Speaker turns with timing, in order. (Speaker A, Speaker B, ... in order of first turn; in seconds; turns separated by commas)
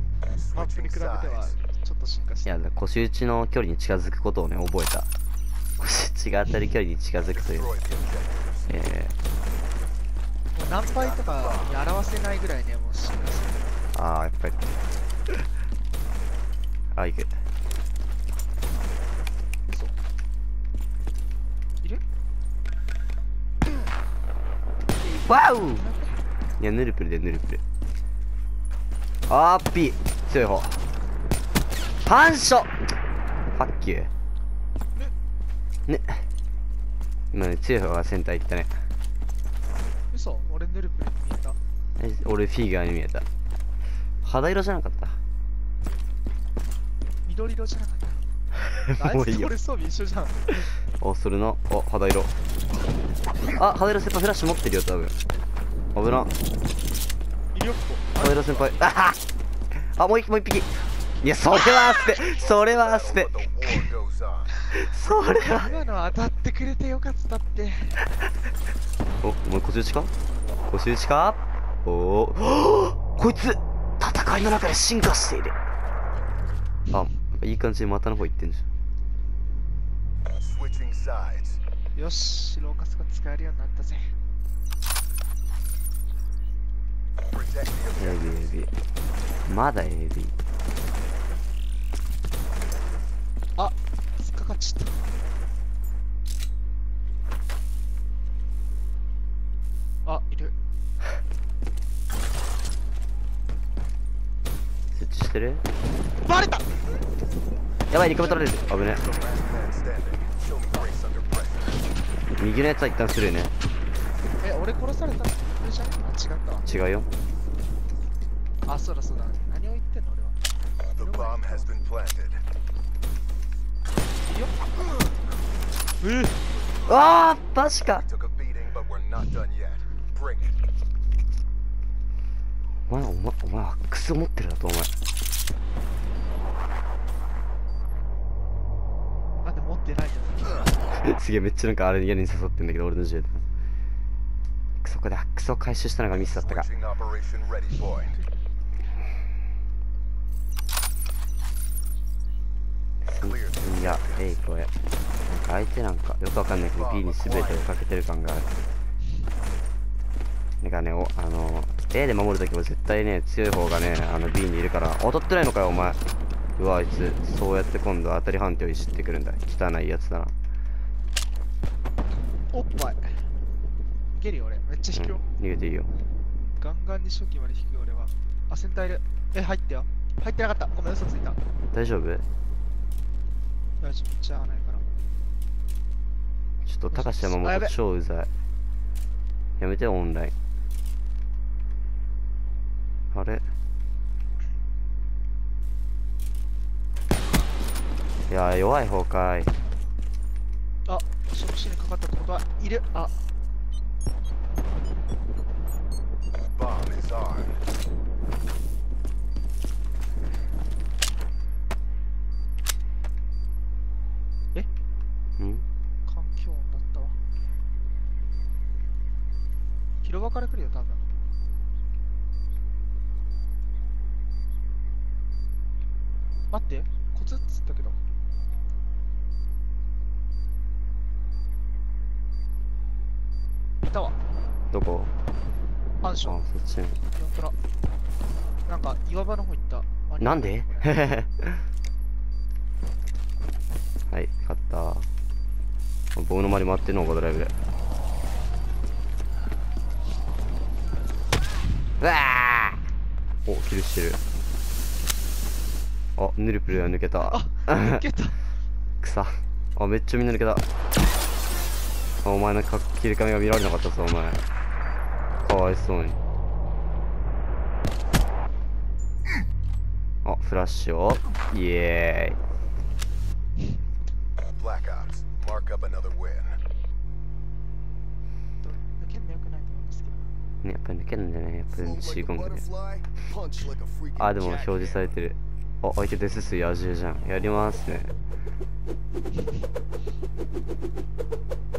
Speaker A: 0.3-1.6, Speaker B: 0.5-2.6, Speaker C: 2.5-5.1, Speaker C: 5.8-7.7, Speaker A: 7.3-8.7, Speaker C: 8.7-9.2, Speaker B: 10.5-13.8, Speaker A: 10.8-11.8, Speaker C: 13.9-15.4, Speaker C: 16.9-17.4, Speaker B: 19.7-20.0, Speaker B: 25.0-26.2, Speaker C: 25.2-25.8, Speaker C: 26.6-27.6, Speaker C: 29.3-30.8, Speaker C: 32.0-32.8, Speaker C: 33.5-34.1, Speaker C: 35.9-36.2, Speaker C: 37.3-38.8, Speaker B: 40.1-41.6, Speaker C: 42.0-43.2, Speaker C: 44.2-45.2, Speaker B: 47.2-48.2, Speaker C: 48.8-49.5, Speaker B: 48.8-50.7, Speaker C: 50.8-52.3, Speaker C: 53.5-55.1, Speaker C: 55.9-56.3, Speaker B: 57.5-58.9, Speaker C: 58.2-59.2, Speaker C: 59.7-63.4, Speaker A: 62.0-64.6, Speaker C: 64.7-65.7, Speaker B: 64.7-68.0, Speaker A: 65.5-65.8, Speaker C: 69.2-70.1, Speaker C: 70.7-75.5, Speaker C: 76.9-78.7, Speaker A: 80.4-81.6, Speaker B: 81.9-84.2, Speaker A: 87.3-88.5, Speaker C: 88.0-88.7, Speaker C: 89.4-90.3, Speaker B: 93.5-95.0, Speaker B: 100.0-100.5, Speaker C: 104.9-105.6, Speaker B: 106.2-106.8, Speaker C: 107.9-109.0, Speaker A: 108.7-111.9, Speaker C: 112.4-113.5, Speaker B: 114.4-116.7, Speaker C: 116.6-117.1, Speaker B: 118.7-120.4, Speaker A: 120.9-122.4, Speaker B: 120.9-121.9, Speaker B: 124.2-124.8, Speaker B: 126.0-126.4, Speaker C: 126.8-128.1, Speaker A: 128.0-130.6, Speaker C: 132.9-134.9, Speaker B: 139.4-141.0, Speaker C: 140.9-143.4, Speaker C: 144.8-146.7, Speaker A: 146.4-148.2, Speaker C: 153.0-154.7, Speaker A: 153.2-154.4, Speaker C: 155.3-158.5, Speaker A: 156.8-157.8, Speaker C: 160.6-166.0, Speaker C: 166.6-170.3, Speaker B: 172.5-173.3, Speaker B: 174.1-175.2, Speaker C: 174.9-175.9, Speaker B: 176.6-181.4, Speaker C: 181.7-182.2, Speaker B: 183.8-184.8, Speaker C: 186.6-188.3, Speaker B: 186.9-187.7, Speaker C: 189.6-190.3, Speaker C: 193.1-193.4, Speaker C: 198.3-199.5, Speaker B: 200.8-203.2, Speaker A: 206.3-207.6, Speaker C: 215.4-215.6, Speaker B: 216.1-217.2, Speaker B: 220.0-221.0, Speaker B: 226.5-228.0, Speaker B: 233.8-234.2, Speaker C: 234.7-235.1, Speaker B: 236.0-236.4, Speaker C: 236.2-237.0, Speaker B: 237.1-237.6, Speaker B: 238.7-241.0, Speaker C: 240.2-241.6, Speaker C: 244.1-245.1, Speaker C: 246.2-247.5, Speaker C: 252.0-252.8, Speaker C: 253.4-254.2, Speaker C: 256.1-257.9, Speaker B: 257.2-258.4, Speaker C: 259.0-260.6, Speaker C: 262.2-264.4, Speaker C: 265.4-266.2, Speaker C: 270.2-272.4, Speaker A: 274.5-276.6, Speaker B: 278.6-280.3, Speaker C: 280.6-282.7, Speaker A: 281.7-285.1, Speaker C: 284.1-288.1